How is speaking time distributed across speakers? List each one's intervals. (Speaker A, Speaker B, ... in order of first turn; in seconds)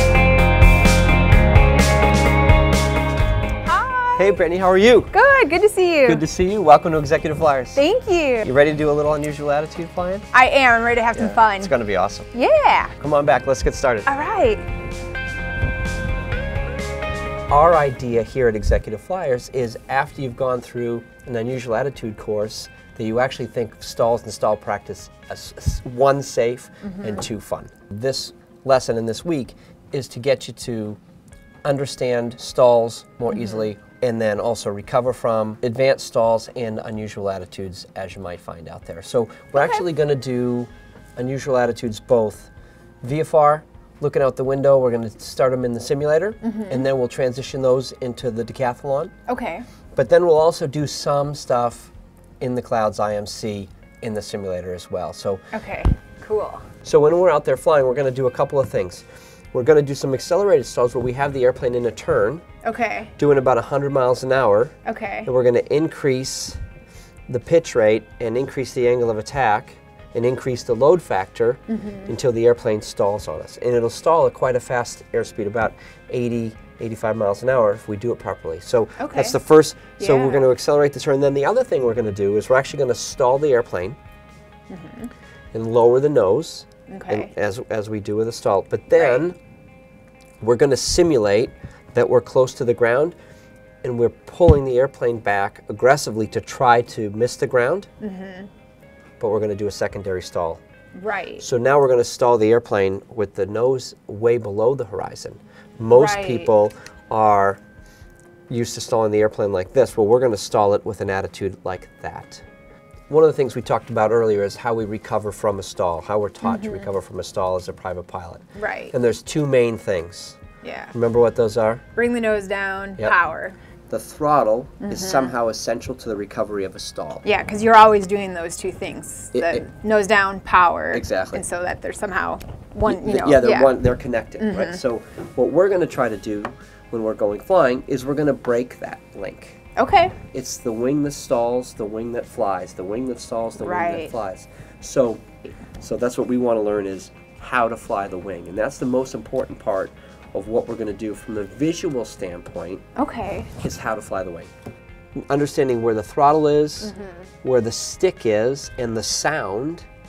Speaker A: 3.6-4.4, 5.1-6.2, 7.7-8.5, 10.3-11.7, 12.3-12.9, 14.1-14.6, 26.8-27.2, 33.3-33.7, 39.5-39.8, 46.4-46.9, 49.3-49.6, 55.5-56.6, 62.6-63.1, 64.8-65.3, 71.7-72.1, 79.0-79.4, 80.0-80.5, 84.7-85.1, 86.9-87.3, 89.0-89.2, 98.0-98.5, 101.0-101.5, 105.9-106.5, 116.4-116.9, 118.5-118.9, 120.6-120.9, 121.9-123.6, 124.8-125.3, 127.2-133.8, 134.4-134.8, 139.8-140.2, 143.6-144.1, 153.0-153.5, 156.8-157.3
Speaker B: 4.2-5.1, 6.0-7.8, 8.4-10.3, 11.1-12.3, 13.0-14.1, 17.5-31.0, 31.6-42.5, 43.0-49.1, 49.9-55.4, 56.8-62.4, 63.2-66.6, 67.3-84.0, 85.5-89.4, 90.4-93.2, 93.8-97.9, 99.2-100.6, 101.4-107.6, 108.5-112.4, 113.1-120.4, 120.9-121.8, 123.9-127.2, 129.3-129.7, 130.9-131.4, 132.8-139.6, 140.3-145.3, 145.8-152.8, 153.6-154.5, 155.3-156.9, 157.4-159.8